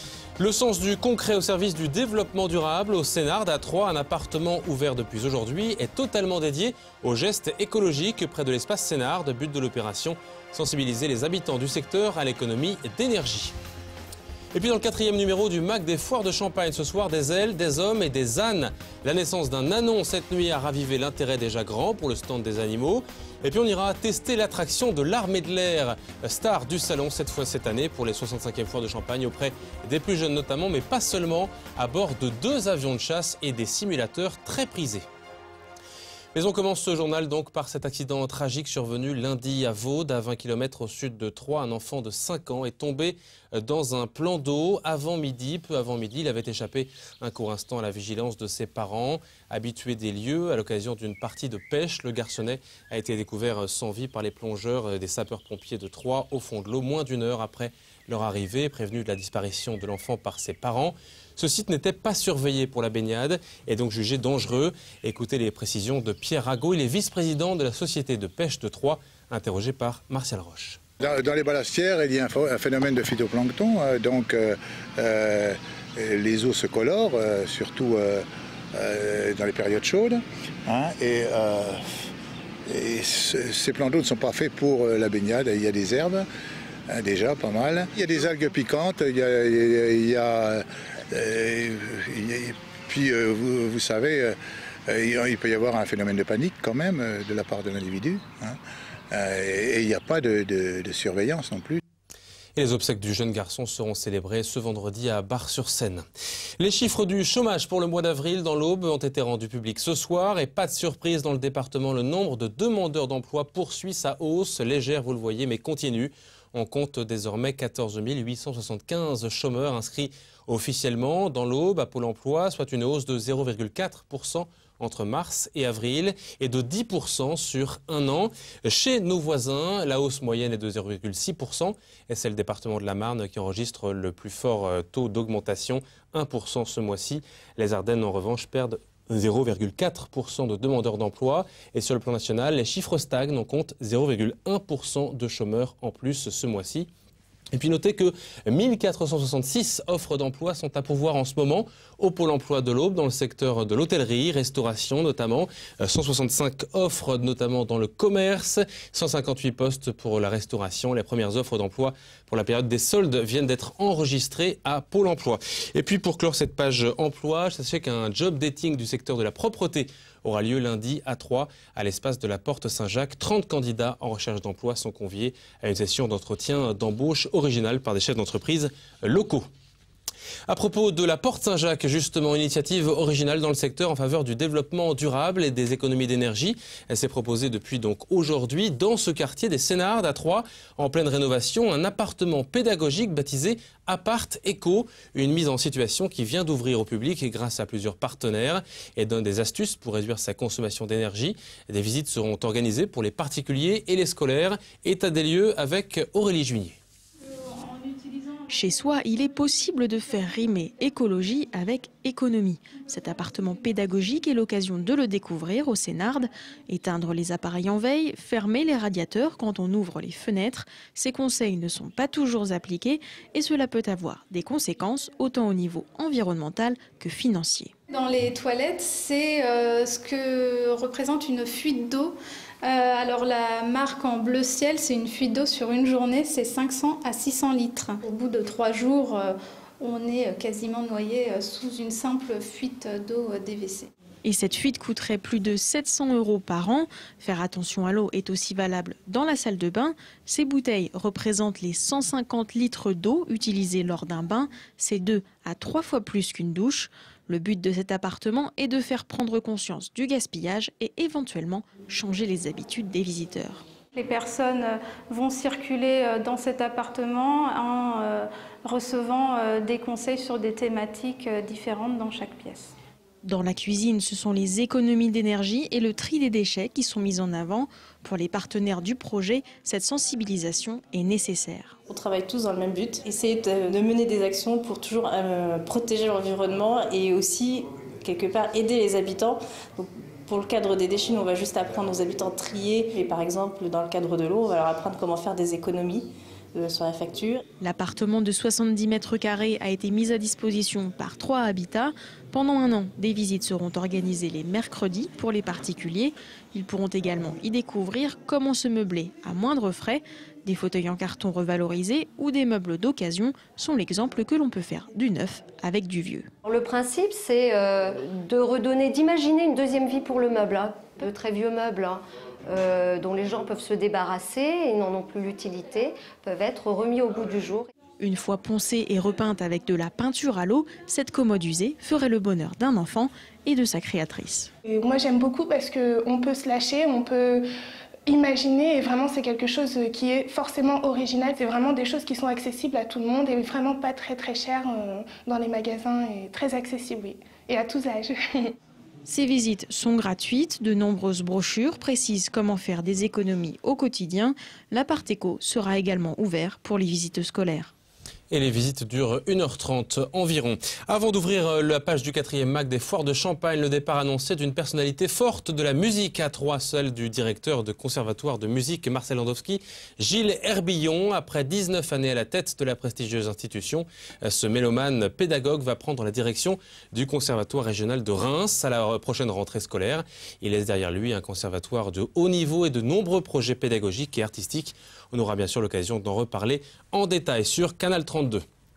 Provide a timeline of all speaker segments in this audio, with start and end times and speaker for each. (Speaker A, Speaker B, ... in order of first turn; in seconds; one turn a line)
Speaker A: 0.4-13.6
Speaker A: 14.5-35.1
Speaker A: 36.4-70.8
Speaker B: 71.0-81.8
Speaker B: 82.7-86.2
Speaker B: 86.9-94.3
Speaker B: 94.9-98.6
Speaker B: 99.1-101.8
Speaker A: 102.6-106.1
Speaker A: 106.6-146.9
Speaker A: 147.5-179.5
Speaker A: 180.5-206.8
Speaker C: 207.3-208.4
Speaker D: 208.5-227.7
Speaker C: 227.9-243.9
Speaker D: 244.2-263.6
Speaker C: 263.9-272.7
Speaker D: 273.2-281.8
Speaker E: 281.9-297.4
Speaker D: 297.6-316.3
Speaker F: 316.4-327.7
Speaker D: 328.0-334.5
Speaker G: 334.7-337.4
Speaker G: 338.1-348.5
Speaker D: 349.1-357.7
Speaker A: 358.3-388.4